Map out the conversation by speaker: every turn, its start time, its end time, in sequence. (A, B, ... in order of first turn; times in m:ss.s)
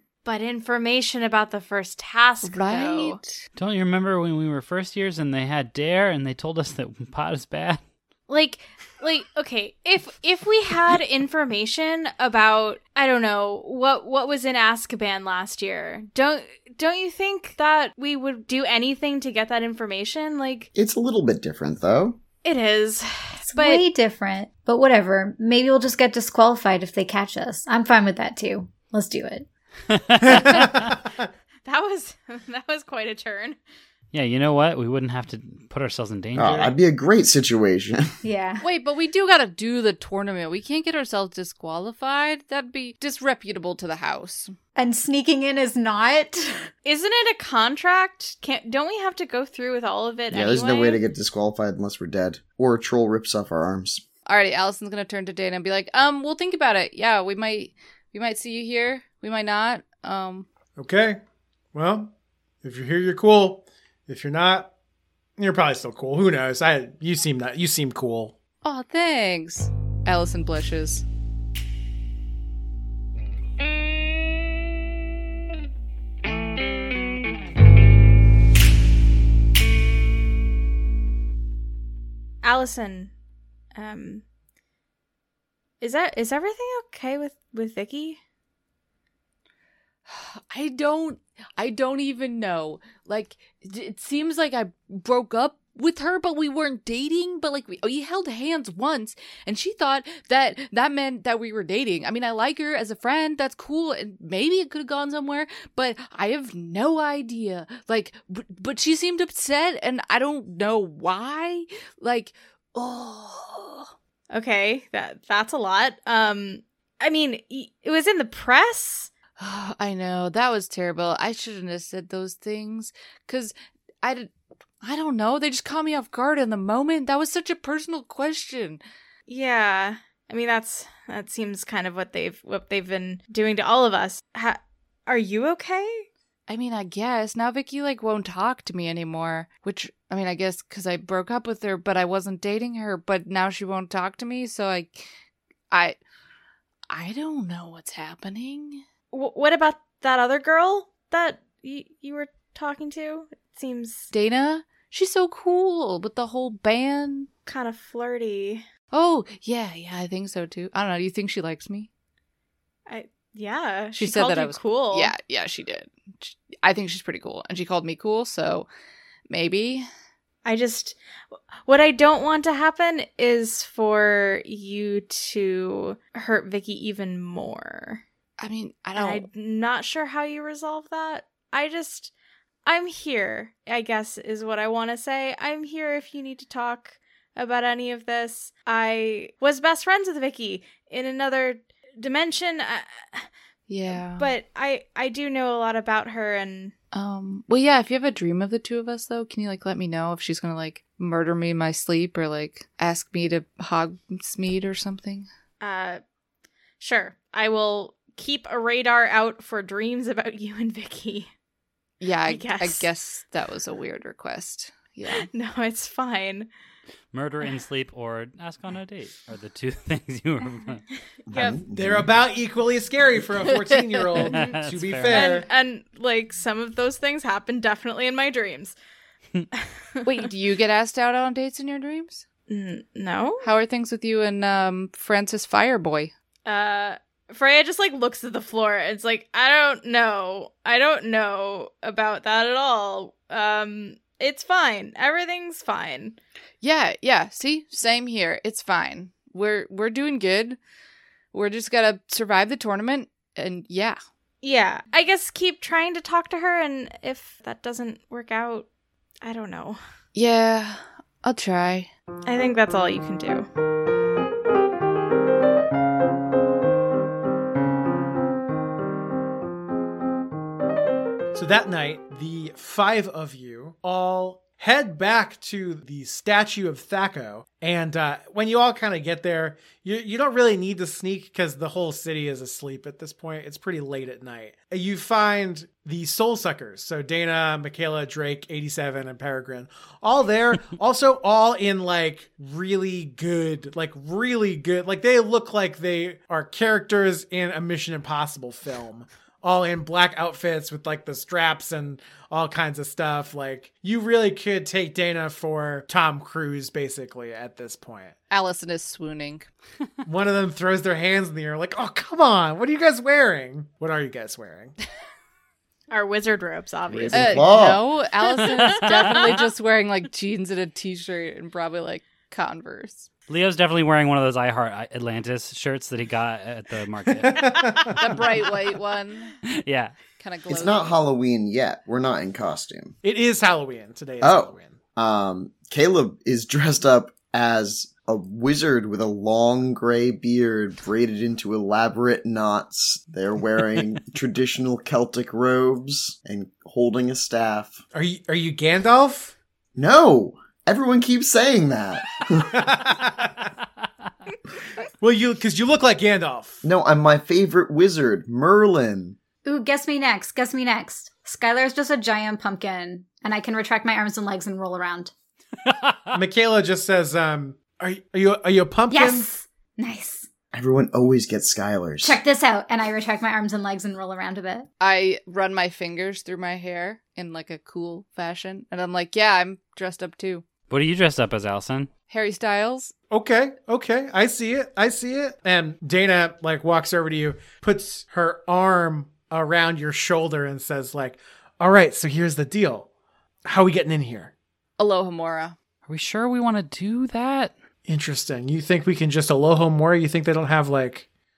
0:00.2-0:03.2 A
0:02.4-0:03.4 B
0:03.6-0:07.8 C
0:08.3-0:20.7 A
0:20.7-0:22.2 D
0:22.4-0:23.8 A
0:23.5-0:29.5 E
0:29.9-0:30.9 C
0:30.2-0:31.3 F
0:31.6-0:33.6 A
0:34.1-0:36.7 C
0:36.4-0:38.2 D
0:38.2-0:38.6 E
0:38.6-0:44.5 B
0:44.8-0:46.7 E
0:46.8-0:51.0 A
0:50.3-0:54.0 D
0:54.3-1:00.4 B
1:00.8-1:01.2 F
1:01.7-1:02.1 F
1:02.6-1:04.7 F
1:05.4-1:08.3 F
1:08.6-1:11.0 B
1:22.4-1:23.1 A
1:23.7-1:24.2 A
1:25.8-1:28.2 A
1:30.1-1:53.9 B
1:54.3-1:59.1 A
1:59.4-2:04.3 B
2:04.8-2:08.8 B
2:09.3-2:16.1 A
2:16.5-2:25.0 B
2:25.7-2:26.0 B
2:26.9-2:28.8 B
2:29.1-2:34.1 A
2:34.1-2:37.3 B
2:37.5-2:38.6 A
2:38.9-2:41.9 B
2:42.9-2:45.1 A
2:43.9-2:48.7 B
2:49.3-2:49.9 B
2:50.4-2:51.0 A
2:51.6-2:58.0 A
2:58.4-2:59.3 B
2:59.0-3:02.1 A
3:02.6-3:13.3 A
3:13.7-3:14.3 B
3:13.9-3:16.7 A
3:16.9-3:25.3 B
3:25.6-3:26.0 A
3:26.8-3:31.3 A
3:32.0-3:35.3 B
3:32.3-3:32.9 A
3:35.1-3:36.5 A
3:37.1-3:40.8 C
3:41.3-3:42.0 D
3:41.3-3:41.6 A
3:41.7-3:45.4 F
3:43.8-3:44.2 B
3:44.2-3:45.4 C
3:45.1-3:48.8 A
3:49.5-3:50.0 A
3:50.0-3:52.2 B
3:52.5-3:53.4 A
3:53.4-3:56.1 B
3:56.4-4:06.2 A
4:06.6-4:10.6 B
4:11.3-4:14.0 B
4:14.4-4:18.7 A
4:19.2-4:19.8 A
4:20.1-4:21.9 B
4:22.2-4:23.5 A
4:31.3-5:08.1 F
5:08.3-5:09.5 B
5:10.0-5:14.7 F
5:15.9-5:17.6 A
5:16.9-5:17.9 D
5:17.1-5:23.1 B
5:18.2-5:19.5 A
5:23.3-5:28.5 C
5:27.1-5:28.0 F
5:27.9-5:29.4 B
5:29.4-5:30.0 C
5:30.2-5:31.0 B
5:30.5-5:33.0 D
5:33.0-5:34.8 F
5:34.2-5:47.8 D
5:47.9-5:49.3 F
5:49.7-5:52.6 D
5:52.3-5:53.5 F
5:55.0-5:56.6 F
5:56.6-5:59.2 D
5:59.4-6:05.1 E
6:05.6-6:06.2 C
6:06.1-6:09.3 F
6:08.9-6:10.3 E
6:10.5-6:12.2 D
6:12.0-6:14.6 E
6:14.8-6:20.4 B
6:20.7-6:21.9 C
6:22.1-6:22.9 B
6:23.1-6:32.9 F
6:33.4-6:34.3 F
6:34.8-6:35.6 B
6:35.8-6:37.5 C
6:37.8-6:41.0 F